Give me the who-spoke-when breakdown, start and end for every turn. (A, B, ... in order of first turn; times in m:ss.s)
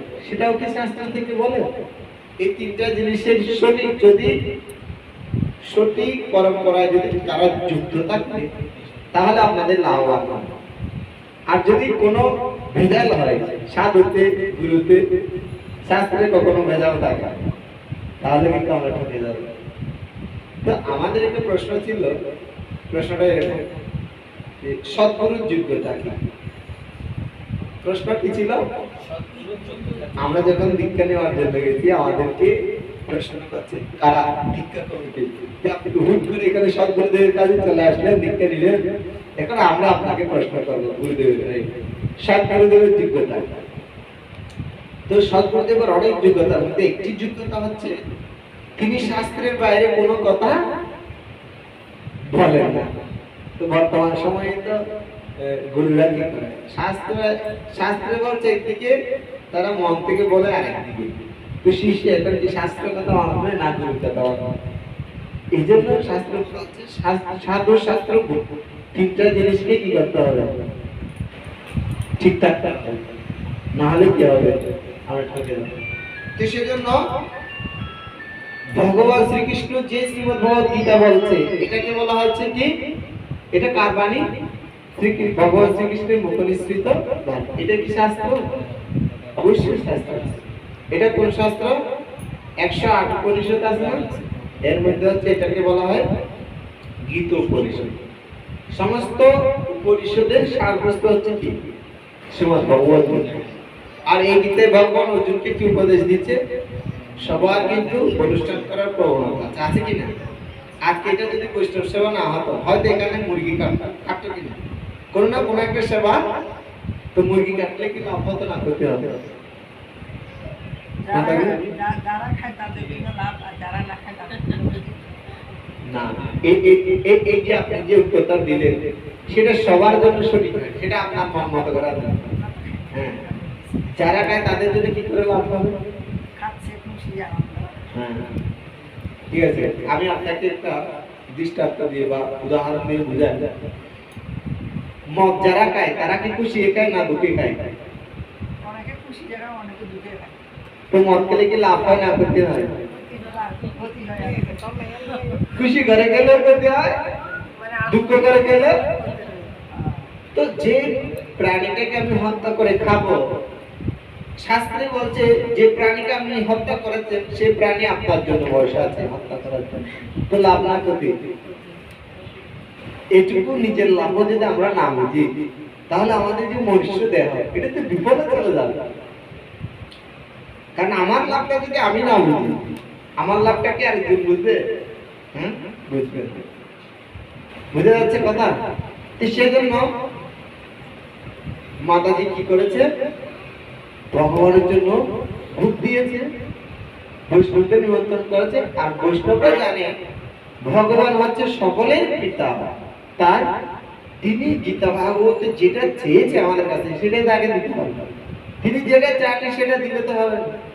0:00.2-0:01.6 A
0:02.4-0:04.3 A
0:05.7-0:08.5 A
0:09.1-0:10.5 A
0:11.5-0:12.2 A
0:12.7-0:15.0 A
0:15.9-0:17.5 A
0:18.2-0:19.4 A
0:20.6-0:22.1 A
0:22.9-0:23.6 A
0:24.6-0:26.1 A
0:27.8-0:28.6 A
0:30.2-0:32.5 A
0:33.1-0:38.8 A
0:39.4-0:41.6 A
0:42.2-0:43.6 A
0:45.1-0:47.9 A
0:48.8-0:50.6 A
0:52.3-0:52.9 A
0:53.6-0:54.7 A
0:55.4-0:58.9 A
0:59.5-1:01.1 A
1:01.6-1:04.3 A
1:05.5-1:08.4 A
1:08.9-1:10.5 A
1:12.2-1:13.0 A
1:13.8-1:14.5 A
1:15.1-1:15.7 A
1:16.4-1:17.0 A
1:18.8-1:22.7 A
1:23.5-1:24.2 A
1:25.0-1:28.4 A
1:29.4-1:30.4 A
1:30.9-1:31.7 A
1:32.6-1:36.0 A
1:37.1-1:37.9 A
1:38.8-1:41.6 A
1:42.4-1:43.3 A
1:44.1-1:46.4 A
1:47.2-1:50.1 A
1:50.8-1:54.6 A
1:55.1-1:56.2 A
1:57.1-1:59.1 A
2:01.0-2:05.0 B
2:01.1-2:01.5 A
2:05.9-2:08.7 A
2:09.3-2:12.3 A
2:12.3-2:14.3 B
2:14.0-2:15.7 A
2:16.4-2:17.8 B
2:17.9-2:18.2 A
2:19.3-2:20.7 A
2:21.4-2:23.4 A
2:25.2-2:27.6 A
2:28.6-2:30.3 B
2:30.9-2:32.7 A
2:32.9-2:34.8 B
2:35.5-2:36.9 A
2:37.9-2:38.7 A
2:39.7-2:40.0 B
2:40.3-2:40.8 A
2:41.4-2:43.2 A
2:44.4-2:51.1 A
2:53.2-2:55.2 A
2:55.9-2:58.7 A
3:00.8-3:02.6 A
3:03.2-3:04.6 A
3:05.3-3:06.4 A
3:07.7-3:08.5 A
3:09.2-3:09.8 A
3:11.9-3:12.9 A
3:14.1-3:15.0 A
3:15.6-3:16.2 A
3:17.3-3:19.9 A
3:20.6-3:22.5 A
3:24.2-3:28.0 A
3:28.6-3:30.4 A